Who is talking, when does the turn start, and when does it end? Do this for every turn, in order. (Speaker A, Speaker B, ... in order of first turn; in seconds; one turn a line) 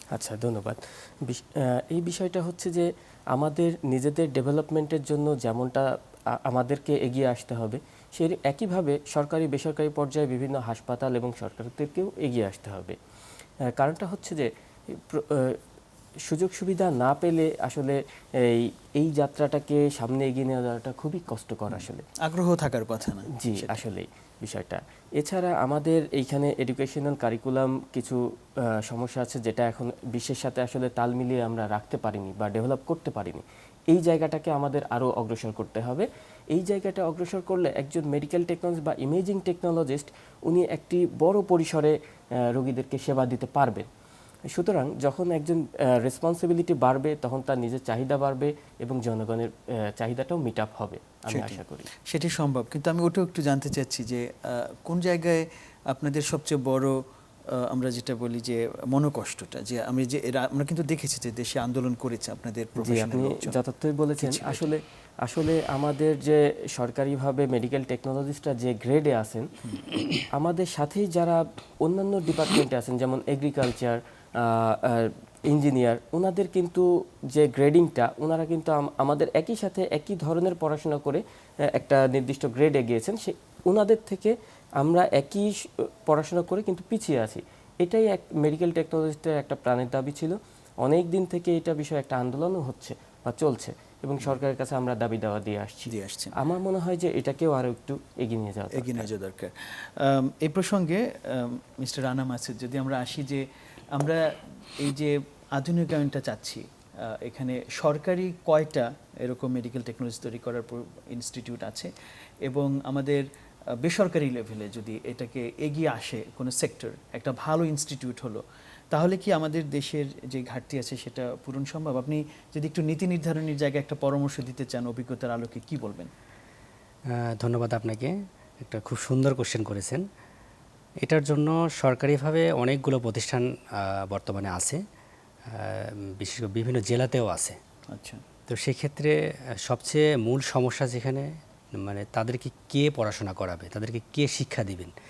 Speaker A: 0.1-13.0
Speaker A: 13.7-15.6
Speaker A: 16.2-22.0
Speaker B: 21.7-23.8
Speaker A: 23.4-43.9
Speaker A: 44.5-51.9
Speaker B: 51.3-57.0
Speaker B: 57.5-63.6
Speaker A: 62.8-69.5
Speaker B: 64.2-64.6
Speaker A: 70.3-99.1
Speaker B: 95.9-96.4
Speaker B: 98.7-111.9
Speaker B: 112.4-113.2
Speaker B: 113.8-126.1
Speaker C: 127.1-130.0
Speaker C: 131.0-134.8
Speaker C: 135.5-137.6
Speaker B: 137.9-138.2
Speaker C: 138.5-144.9